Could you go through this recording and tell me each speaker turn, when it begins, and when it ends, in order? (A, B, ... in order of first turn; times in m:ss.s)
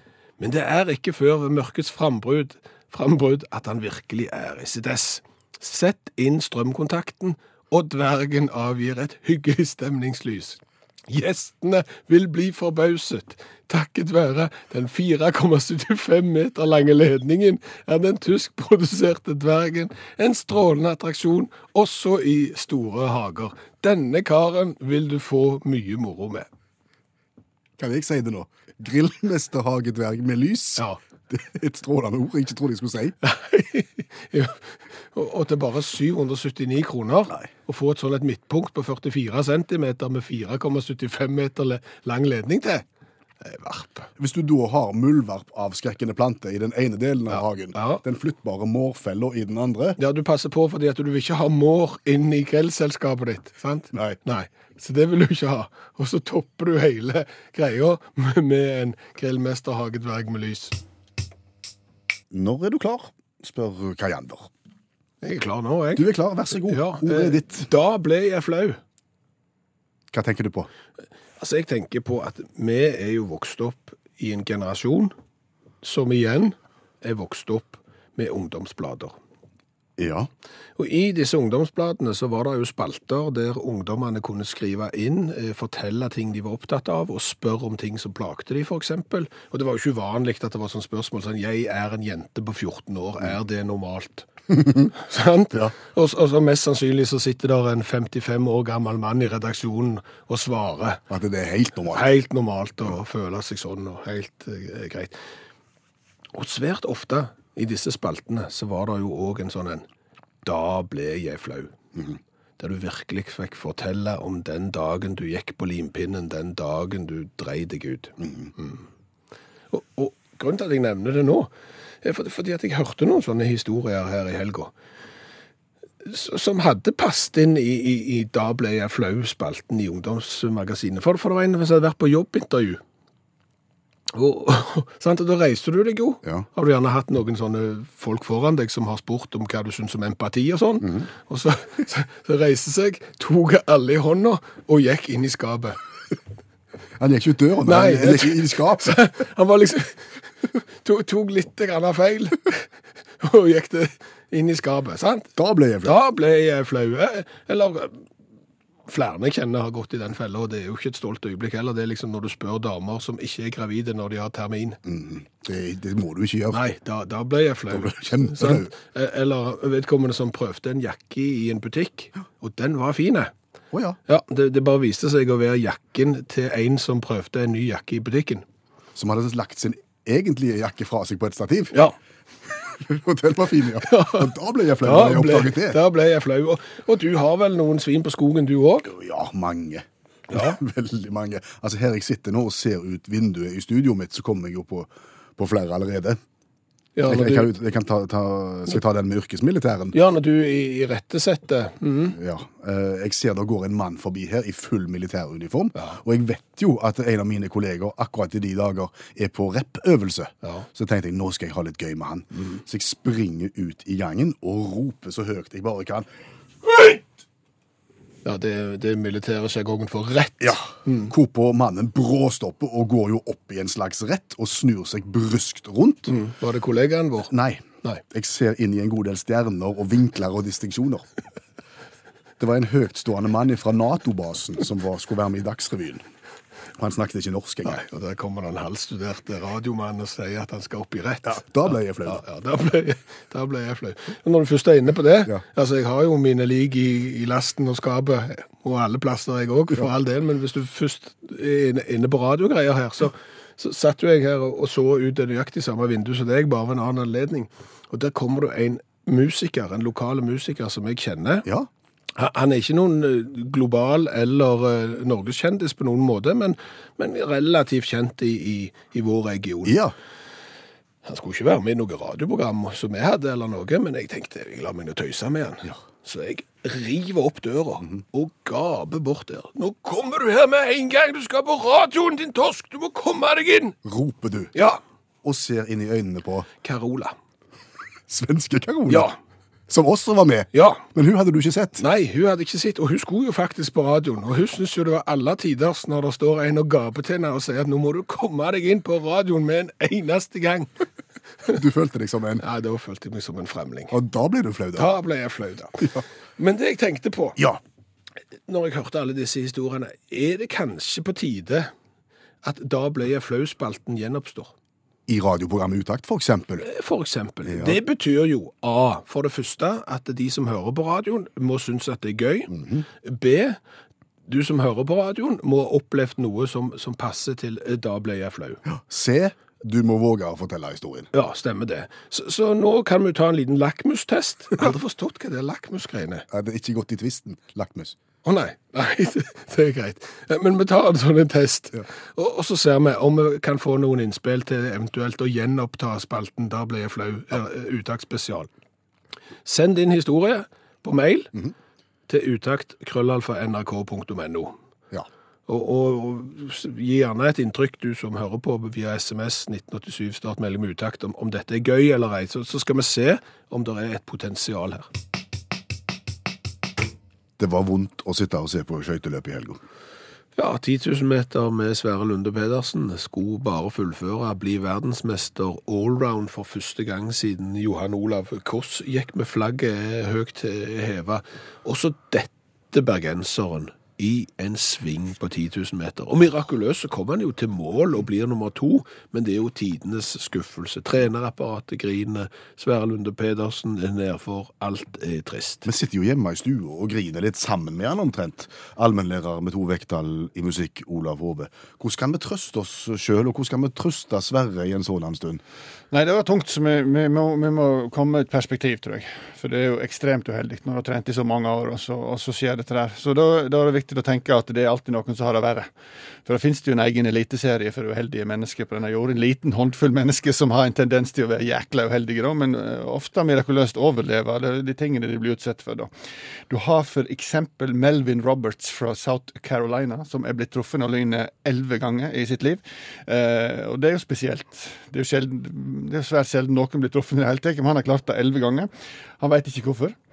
0:00.4-0:26.5 A
0:27.8-0:33.2 B
0:33.2-0:42.8 A
0:43.4-0:44.1 A
0:44.2-0:50.0 B
0:47.3-0:48.0 A
0:50.0-1:00.8 A
0:53.9-0:54.2 B
1:02.3-1:04.5 B
1:05.2-1:06.1 A
1:06.0-1:07.7 B
1:06.6-1:08.8 A
1:10.1-1:10.7 B
1:11.4-1:15.1 A
1:15.8-1:19.2 A
1:20.0-1:20.3 B
1:20.8-1:41.0 A
1:41.1-1:42.1 B
1:41.9-1:45.2 A
1:46.3-1:49.8 A
1:50.4-1:51.7 A
1:52.6-1:58.8 A
1:58.2-1:58.5 B
1:59.7-2:04.7 A
2:06.0-2:12.8 A
2:14.1-2:25.8 A
2:27.0-2:29.0 B
2:27.6-2:32.7 A
2:33.2-2:35.3 A
2:35.4-2:36.0 B
2:35.8-2:38.0 A
2:38.9-2:44.8 A
2:44.8-2:46.6 B
2:46.5-2:53.3 A
2:47.7-2:48.7 B
2:53.7-2:54.0 B
2:54.1-2:58.4 A
2:58.9-3:01.8 B
3:02.6-3:05.8 B
3:03.8-3:04.3 A
3:04.8-3:08.9 A
3:08.8-3:16.2 B
3:10.3-3:10.6 A
3:17.0-3:17.5 A
3:17.0-3:19.9 B
3:19.9-3:22.2 A
3:22.1-3:36.1 B
3:38.2-3:41.1 A
3:40.4-3:46.1 B
3:46.1-3:47.3 A
3:47.3-3:51.1 B
3:52.4-3:56.0 B
3:56.8-3:57.8 B
3:57.6-4:01.4 A
4:01.2-4:02.2 B
4:02.0-4:21.4 A
4:22.2-4:29.8 A
4:29.6-4:29.9 B
4:31.0-4:43.7 A
4:43.8-4:44.5 B
4:44.5-4:44.8 A
4:45.2-4:46.5 B
4:46.6-4:47.1 A
4:48.1-4:49.1 B
4:48.9-4:49.2 A
4:49.7-4:51.8 B
4:50.5-4:50.8 A
4:51.8-5:00.7 A
5:01.5-5:02.4 B
5:02.4-5:03.9 A
5:03.9-5:04.9 B
5:04.8-5:07.4 A
5:08.5-5:11.7 A
5:12.4-5:14.5 A
5:15.1-5:16.7 B
5:16.6-5:23.6 A
5:17.4-5:17.8 B
5:22.5-5:22.8 B
5:24.3-5:28.6 A
5:28.6-5:31.1 B
5:31.1-5:36.2 A
5:36.3-5:38.0 B
5:38.2-5:48.5 A
5:49.4-5:51.3 A
5:52.1-5:54.5 A
5:55.5-6:04.9 A
6:07.4-6:09.6 B
6:10.4-6:35.7 A
6:35.6-6:45.4 B
6:45.9-6:55.7 C
6:56.2-7:05.9 C
7:06.5-7:18.7 C
7:19.2-7:19.9 C